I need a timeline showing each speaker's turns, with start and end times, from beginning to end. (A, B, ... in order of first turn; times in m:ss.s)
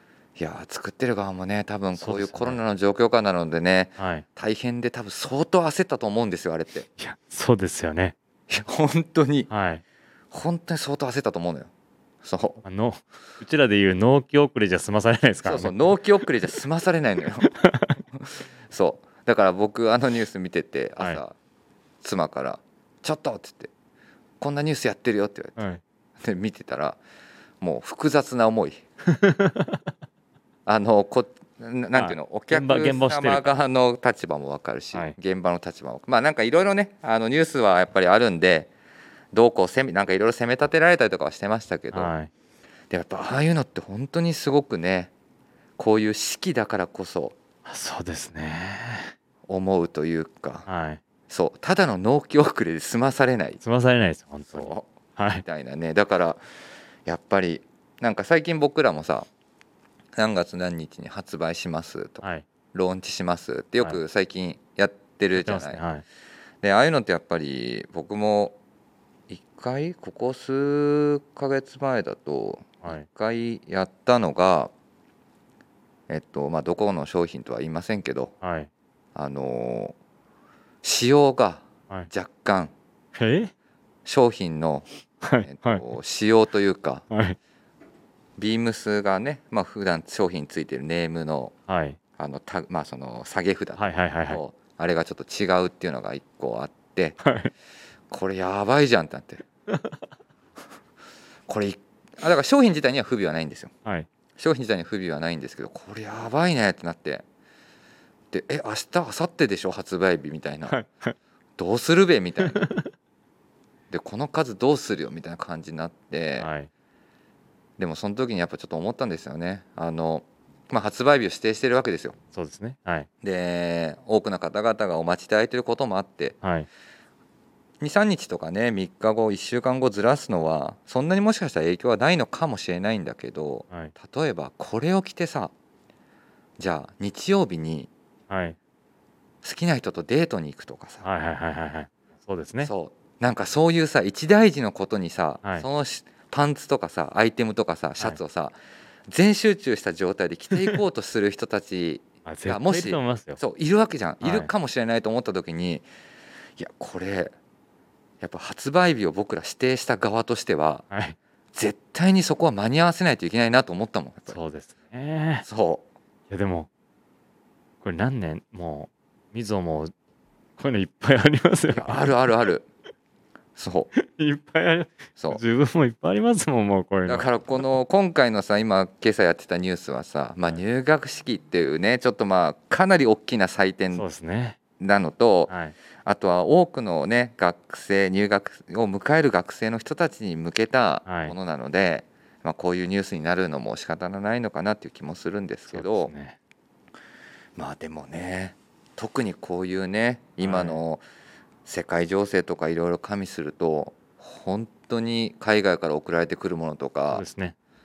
0:00.4-0:06.9 A
0:02.0-0:02.6 B
0:04.0-0:04.2 B
0:07.0-0:08.2 B
0:08.5-0:09.5 A
0:09.5-0:09.8 B
0:10.3-0:11.7 A
0:12.2-0:12.6 A
0:12.6-0:15.8 B
0:15.4-0:17.5 A
0:17.5-0:18.0 B
0:18.2-0:21.4 A
0:22.0-0:23.7 A
0:24.4-0:25.6 A
0:25.6-0:25.8 B
0:26.2-0:27.0 A
0:27.6-0:28.8 A
0:29.1-0:29.9 B
0:30.7-0:38.7 A
0:31.9-0:33.6 B
0:39.3-0:42.1 A
0:41.9-0:42.3 B
0:42.9-0:45.1 A
0:45.8-0:47.4 A
0:47.6-0:49.1 B
0:49.5-0:50.7 A
0:50.7-0:51.0 B
0:51.3-0:53.6 A
0:53.6-0:55.4 B
0:54.5-0:54.9 A
0:55.4-0:56.4 A
0:57.1-0:59.3 A
1:00.2-1:05.8 A
1:05.4-1:06.0 B
1:06.6-1:08.6 A
1:09.3-1:14.7 A
1:16.1-1:18.3 A
1:18.4-1:18.7 B
1:19.2-1:20.0 A
1:20.8-1:22.7 A
1:23.2-1:23.5 B
1:24.0-1:24.9 A
1:25.2-1:25.8 B
1:25.4-1:27.0 A
1:27.1-1:27.4 B
1:28.4-1:31.5 A
1:31.7-1:32.0 B
1:32.2-1:37.2 A
1:33.8-1:34.4 B
1:37.2-1:37.5 B
1:38.1-1:39.4 A
1:39.7-1:40.0 B
1:41.5-1:43.7 A
1:44.4-1:47.2 A
1:48.3-1:50.8 A
1:50.7-1:51.2 B
1:51.6-1:52.7 A
1:52.6-1:52.8 B
1:53.9-1:56.5 A
1:56.4-1:56.7 B
1:57.8-2:02.2 A
2:02.3-2:03.1 B
2:03.2-2:06.4 A
2:06.4-2:06.7 B
2:07.8-2:15.5 A
2:16.6-2:17.9 A
2:18.3-2:18.6 B
2:19.4-2:21.1 A
2:21.0-2:22.7 B
2:22.6-2:28.6 A
2:29.1-2:35.8 A
2:32.3-2:33.4 B
2:34.2-2:34.5 B
2:36.6-2:37.3 A
2:38.2-2:40.8 A
2:40.9-2:41.2 B
2:41.5-2:44.4 A
2:44.3-2:45.5 B
2:45.4-2:45.8 A
2:46.3-2:46.7 B
2:47.8-2:49.9 B
2:50.6-2:52.1 B
2:51.7-2:52.7 A
2:53.6-2:53.9 A
2:54.0-2:57.7 B
2:57.1-3:04.0 A
3:03.9-3:04.6 B
3:04.8-3:05.5 A
3:05.5-3:05.8 B
3:06.0-3:16.1 A
3:11.1-3:11.3 B
3:15.7-3:16.4 B
3:17.6-3:21.0 A
3:20.4-3:20.8 B
3:21.6-3:27.2 A
3:27.1-3:27.6 B